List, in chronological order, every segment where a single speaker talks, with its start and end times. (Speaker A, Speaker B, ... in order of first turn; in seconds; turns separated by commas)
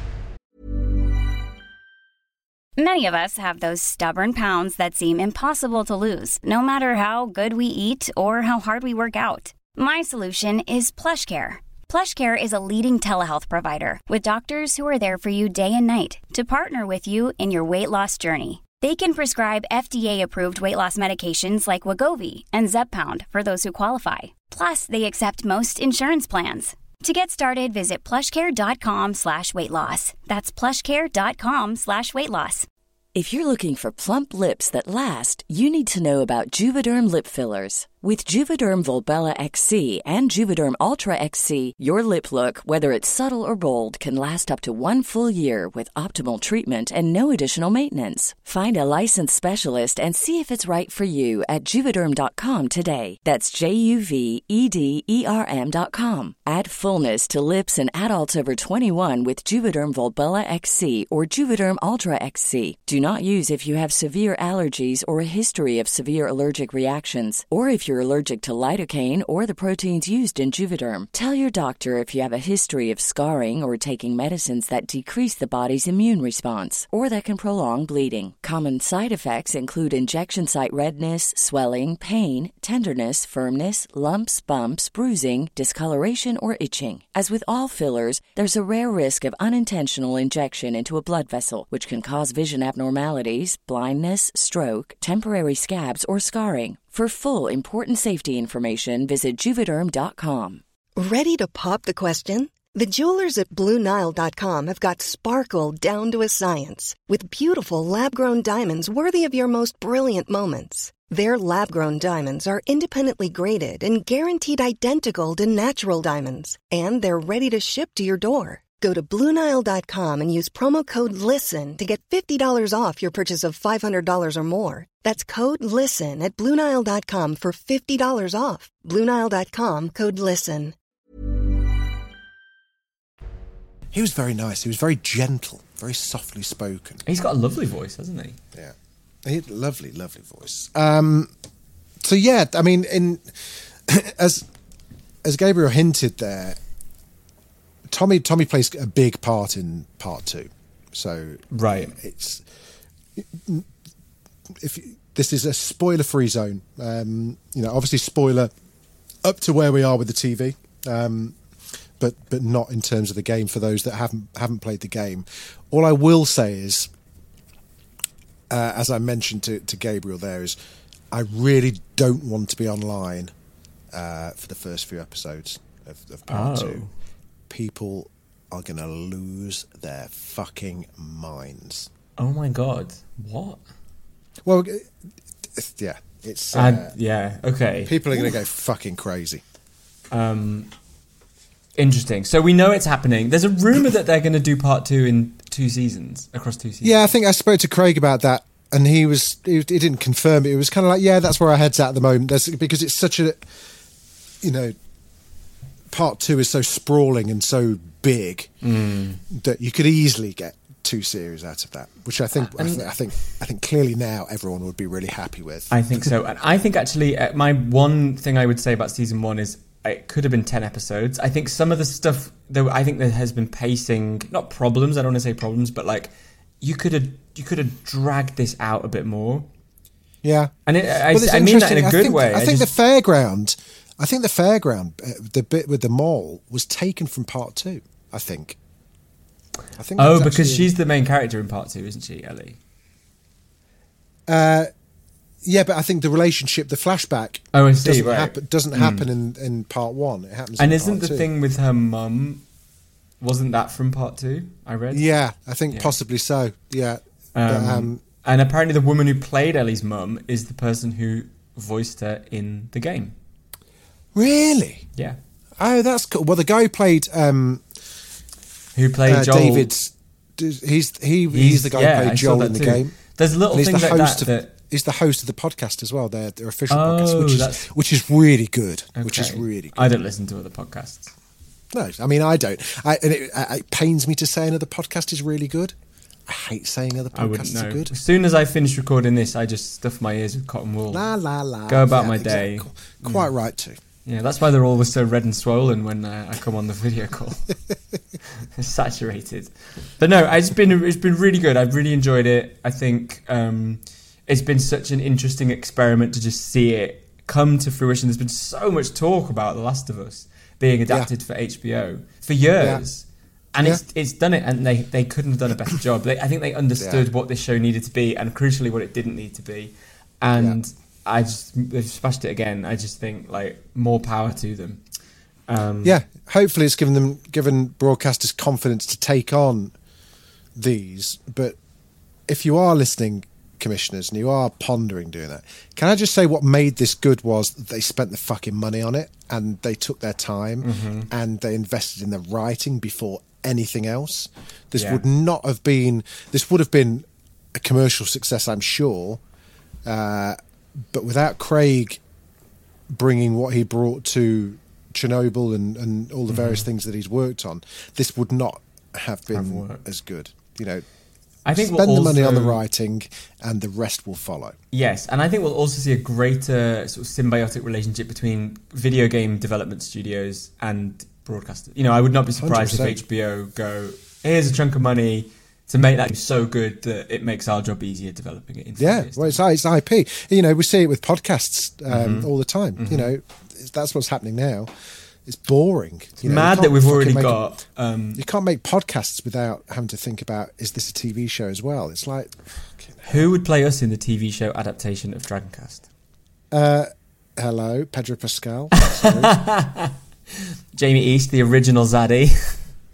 Speaker A: 2.8-32.7, Speaker B: 33.1-100.6, Speaker C: 101.0-130.7, Speaker D: 133.9-137.0, Speaker E: 137.0-138.4, Speaker D: 138.5-141.3, Speaker D: 142.0-144.5, Speaker D: 145.2-146.6, Speaker D: 147.9-152.4, Speaker E: 151.5-152.0, Speaker D: 153.2-153.7, Speaker D: 154.6-158.5, Speaker D: 159.2-161.4, Speaker D: 162.0-166.9, Speaker D: 168.5-170.6, Speaker D: 171.1-173.3, Speaker D: 173.9-176.8, Speaker E: 176.3-176.9, Speaker D: 177.5-181.9, Speaker E: 182.2-183.6, Speaker D: 184.4-184.9, Speaker D: 185.5-186.9, Speaker E: 186.5-188.3, Speaker D: 187.8-189.4, Speaker E: 190.1-190.7, Speaker E: 191.8-197.1, Speaker D: 196.8-203.4, Speaker D: 204.4-204.8, Speaker D: 205.9-208.5, Speaker E: 208.6-209.2, Speaker D: 209.3-216.1, Speaker E: 212.4-212.8, Speaker E: 215.7-229.5, Speaker D: 230.2-230.5, Speaker E: 230.7-232.7, Speaker D: 231.1-238.6, Speaker D: 239.8-240.7, Speaker E: 240.0-242.6, Speaker D: 244.3-244.7, Speaker D: 245.4-251.3, Speaker E: 247.5-249.1, Speaker E: 250.6-252.4, Speaker E: 253.2-255.1, Speaker D: 254.9-258.0, Speaker E: 257.3-263.1, Speaker D: 264.1-264.9, Speaker D: 265.6-267.6, Speaker E: 268.7-269.7, Speaker D: 269.0-273.0, Speaker E: 271.3-274.5, Speaker D: 273.5-280.0, Speaker E: 276.7-277.7, Speaker E: 278.9-281.1, Speaker D: 281.7-285.7, Speaker D: 286.3-287.9, Speaker E: 287.1-291.1, Speaker D: 290.9-293.8, Speaker E: 291.7-293.3, Speaker E: 294.0-297.5, Speaker E: 298.4-324.8, Speaker D: 312.6-312.9, Speaker D: 316.8-317.1, Speaker E: 325.5-326.0, Speaker D: 325.8-329.7, Speaker D: 330.6-331.6, Speaker D: 332.3-349.2, Speaker E: 340.6-341.1, Speaker E: 344.7-345.0, Speaker D: 349.8-350.4, Speaker D: 350.9-352.0, Speaker D: 352.9-360.9, Speaker E: 356.3-356.6, Speaker E: 359.3-359.8, Speaker E: 361.4-362.6, Speaker D: 361.5-364.6, Speaker E: 364.7-379.4, Speaker D: 372.4-373.0, Speaker D: 378.8-384.7, Speaker E: 381.9-383.1, Speaker D: 385.2-387.5, Speaker E: 386.2-388.2, Speaker D: 388.1-393.3, Speaker E: 393.0-395.9, Speaker D: 396.5-399.4, Speaker E: 398.9-399.9, Speaker E: 400.7-402.6